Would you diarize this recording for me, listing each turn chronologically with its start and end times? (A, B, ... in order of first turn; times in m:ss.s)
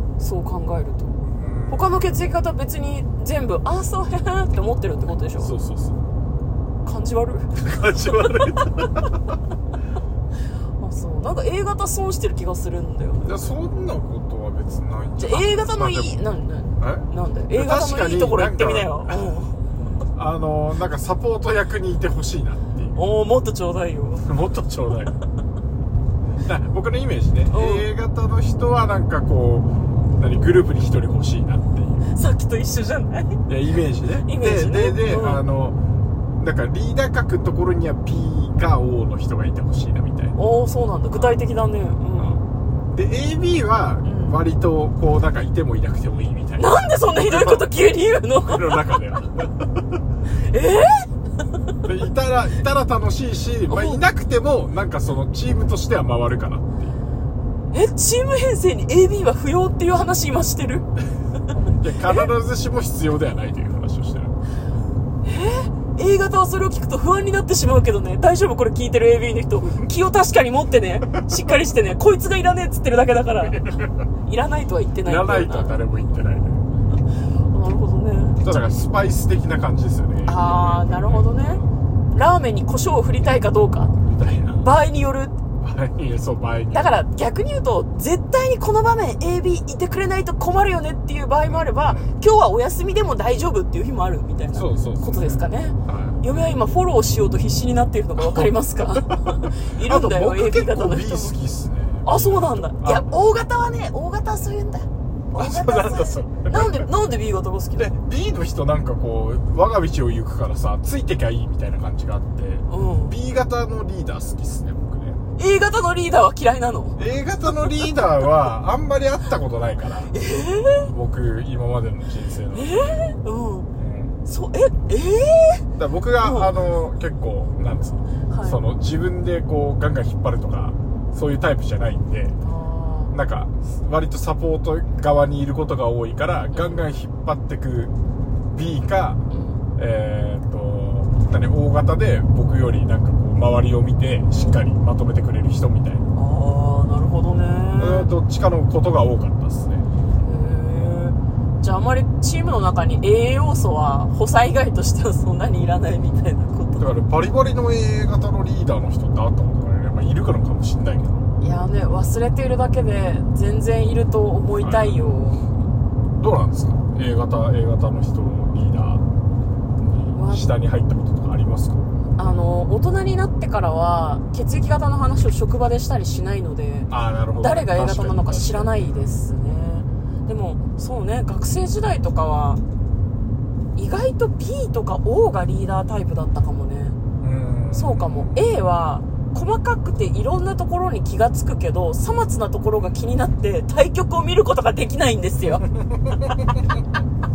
0:00.2-0:05.5 A
0:01.3-0:02.3 B
0:05.4-0:06.0 B
0:06.8-0:08.7 A
0:07.5-0:09.1 B
0:10.8-0:13.5 A
0:13.2-0:16.2 B
0:15.2-0:19.6 A
0:16.8-0:19.3 B
0:20.1-0:23.0 B
0:22.9-0:24.2 A
0:24.2-0:25.2 B
0:26.4-0:32.0 B
0:27.5-0:27.9 A
0:32.0-0:33.4 A
0:33.5-0:35.8 B
0:34.2-0:35.4 A
0:36.4-0:40.4 B
0:40.4-0:42.4 A
0:41.1-0:41.4 B
0:42.2-0:47.7 B
0:44.0-0:44.4 A
0:46.6-0:48.8 A
0:48.4-0:49.7 B
0:50.4-0:51.1 A
0:51.8-0:57.0 B
0:53.7-0:54.0 A
0:57.7-1:00.8 A
1:01.6-1:04.3 B
1:05.2-1:15.7 A
1:13.4-1:14.0 B
1:15.0-1:16.7 B
1:17.5-1:18.4 A
1:18.4-1:21.7 B
1:20.2-1:21.6 A
1:22.1-1:23.9 A
1:24.0-1:24.6 B
1:24.6-1:25.4 A
1:25.6-1:27.0 B
1:26.7-1:41.3 A
1:31.4-1:32.1 B
1:34.5-1:36.2 B
1:38.2-1:43.1 B
1:42.0-1:47.9 A
1:45.3-1:46.9 B
1:47.8-1:55.2 B
1:52.7-1:53.1 A
1:55.4-1:57.0 A
1:57.0-2:00.1 B
1:57.5-1:57.9 A
2:00.1-2:00.9 A
2:00.9-2:03.0 B
2:02.5-2:03.7 A
2:03.8-2:04.2 B
2:04.2-2:05.6 A
2:05.8-2:12.4 B
2:06.2-2:06.5 A
2:08.3-2:08.6 A
2:12.4-2:13.1 A
2:13.1-2:17.9 B
2:16.5-2:16.8 A
2:18.5-2:19.2 B
2:19.3-2:19.6 A
2:19.8-2:26.0 B
2:26.1-2:28.1 A
2:27.8-2:29.8 B
2:30.2-2:36.9 A
2:36.8-2:41.3 B
2:41.4-2:45.4 A
2:44.6-2:45.1 B
2:46.2-2:49.0 B
2:49.8-2:51.8 B
2:50.1-2:50.5 A
2:52.2-3:02.6 A
2:56.9-2:59.1 B
3:03.8-3:07.0 A
3:07.2-3:08.4 B
3:07.7-3:15.6 A
3:15.5-3:16.5 B